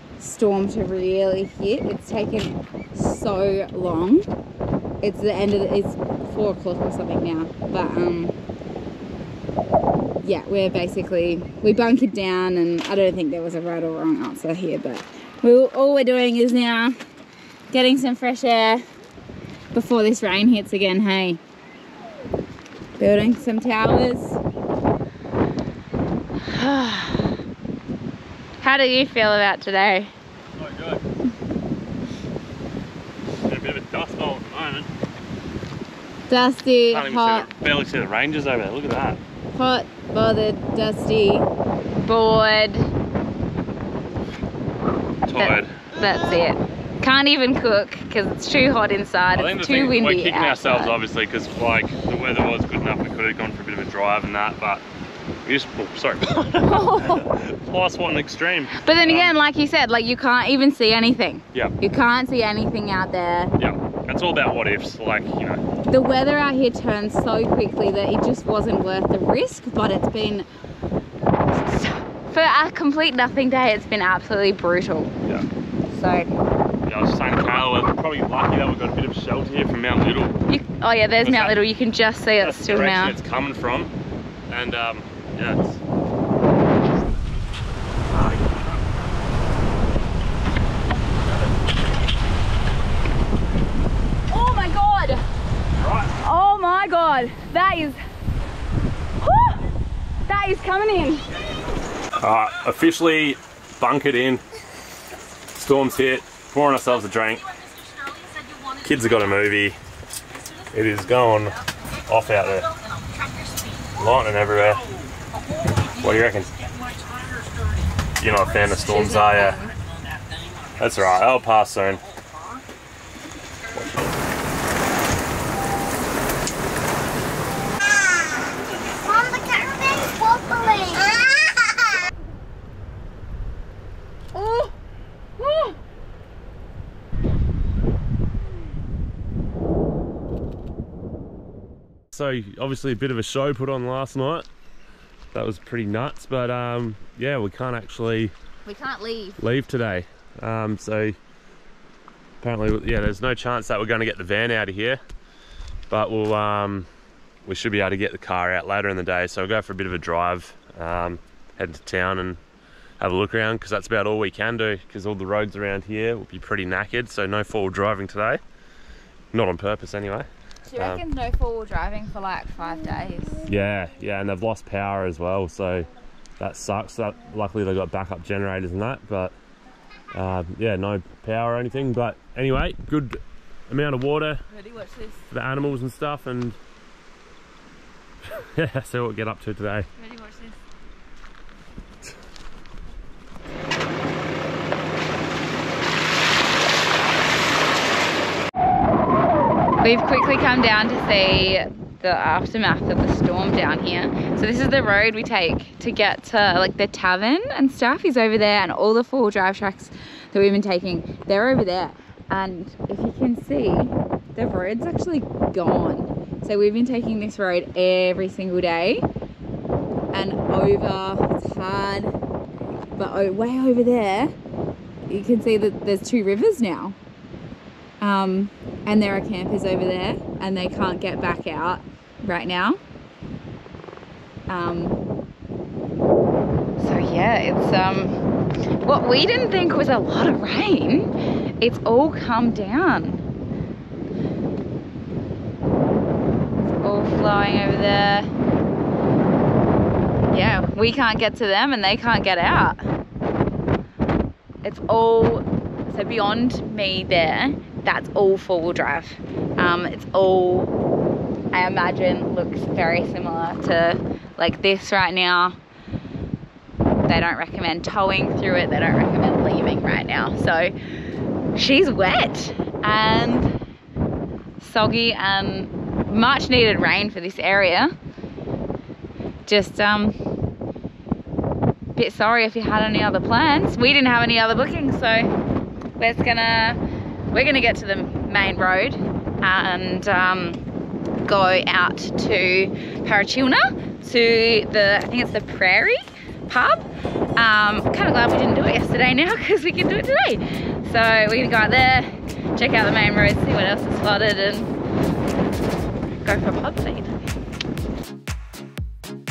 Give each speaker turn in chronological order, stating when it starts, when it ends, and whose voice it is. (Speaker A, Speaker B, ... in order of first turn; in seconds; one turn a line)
Speaker A: 0.2-4.2
Speaker A: 5.0-8.3
Speaker A: 10.2-17.0
Speaker A: 17.7-18.8
Speaker A: 19.7-21.4
Speaker A: 23.0-24.4
Speaker A: 26.4-27.3
Speaker A: 28.6-30.1
Speaker B: 30.6-31.0
Speaker B: 33.5-34.9
Speaker A: 36.3-37.5
Speaker B: 36.9-39.2
Speaker A: 39.5-42.9
Speaker B: 45.2-45.7
Speaker A: 45.4-50.9
Speaker B: 49.3-54.8
Speaker B: 55.5-59.3
Speaker A: 56.6-57.3
Speaker A: 58.7-63.5
Speaker B: 63.6-65.6
Speaker A: 65.9-70.5
Speaker A: 71.5-75.1
Speaker A: 75.9-76.3
Speaker B: 76.8-80.4
Speaker A: 80.5-83.2
Speaker B: 81.2-81.6
Speaker B: 82.4-83.9
Speaker B: 84.5-85.8
Speaker B: 88.1-88.7
Speaker A: 94.3-95.2
Speaker B: 95.8-96.1
Speaker A: 96.2-98.0
Speaker A: 99.2-99.6
Speaker A: 100.3-101.2
Speaker B: 102.2-104.4
Speaker B: 105.5-107.4
Speaker B: 108.8-109.8
Speaker B: 110.7-112.7
Speaker B: 114.0-114.8
Speaker B: 116.0-116.5
Speaker B: 118.2-119.6
Speaker A: 118.8-119.7
Speaker B: 120.8-122.0
Speaker C: 128.9-131.2
Speaker A: 134.3-134.7
Speaker A: 135.4-135.7
Speaker B: 142.1-144.4
Speaker B: 145.3-148.3
Speaker A: 148.7-149.4
Speaker B: 149.4-151.2
Speaker B: 152.4-155.0
Speaker B: 155.9-156.9
Speaker B: 157.4-162.4
Speaker B: 163.0-168.4
Speaker B: 169.3-170.3
Speaker A: 170.7-173.4
Speaker B: 173.4-179.3
Speaker B: 180.1-184.4
Speaker A: 184.6-185.2
Speaker B: 185.3-186.6
Speaker B: 188.3-189.9
Speaker A: 190.0-190.5
Speaker A: 199.8-219.0
Speaker A: 220.1-222.1
Speaker A: 222.9-224.3
Speaker A: 225.1-227.0
Speaker A: 228.0-232.8
Speaker A: 234.5-235.0
Speaker A: 236.8-238.2
Speaker A: 238.8-243.2
Speaker A: 246.8-248.3
Speaker A: 250.3-252.8
Speaker A: 254.6-260.7
Speaker A: 261.5-265.6
Speaker A: 267.0-270.7
Speaker A: 271.5-273.5
Speaker A: 274.6-277.9
Speaker A: 279.5-280.2
Speaker A: 281.9-285.3
Speaker A: 286.0-286.8
Speaker A: 287.3-290.6
Speaker A: 291.2-304.7
Speaker A: 306.1-307.1